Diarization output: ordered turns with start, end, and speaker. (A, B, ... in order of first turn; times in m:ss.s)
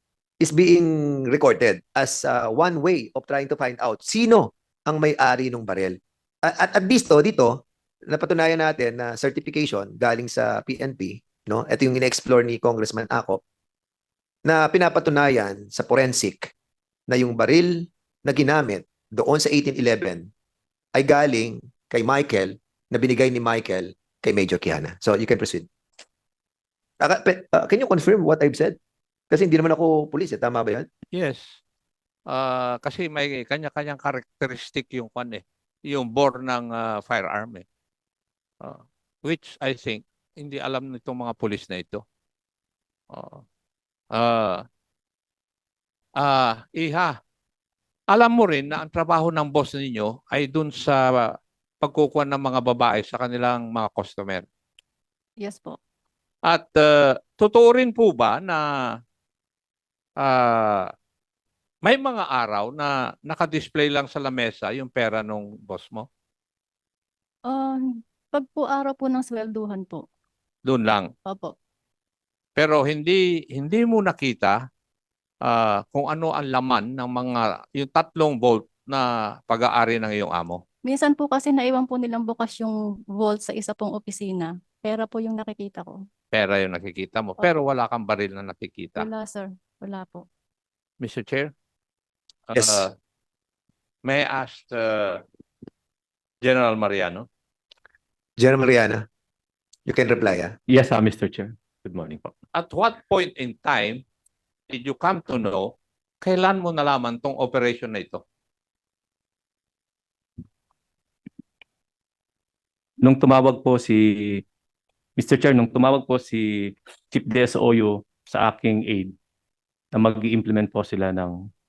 0:00.4-0:13.4 A
0:14.4-0:16.5 A
0:17.1-0:20.3 A
0:20.9-0:25.7 A
0:27.0-0:28.8 A
0:29.3-0:30.9 A
0:31.1-0:31.6 B
0:32.3-0:37.6 B
0:38.6-0:42.0 B
0:43.1-0:43.4 B
0:44.1-0:44.6 B
0:46.2-0:47.1 B
0:48.1-0:51.3 B
0:51.8-0:54.4 B
0:55.4-0:55.8 C
0:56.4-0:58.7 B
1:00.2-1:00.9 B
1:01.8-1:06.1 B
1:07.5-1:10.0 C
1:10.6-1:11.1 B
1:11.2-1:11.5 C
1:12.6-1:14.5 B
1:15.4-1:20.6 B
1:20.8-1:26.0 C
1:26.3-1:29.1 B
1:29.0-1:30.2 C
1:31.0-1:31.5 B
1:32.5-1:32.9 B
1:32.6-1:32.8 A
1:34.0-1:35.2 B
1:36.4-1:37.2 B
1:38.4-1:39.0 A
1:39.8-1:40.5 A
1:40.7-1:42.3 D
1:42.5-1:44.0 B
1:44.7-1:48.2 B
1:53.0-1:54.4 D
1:55.2-1:59.1 D
1:59.9-2:01.4 D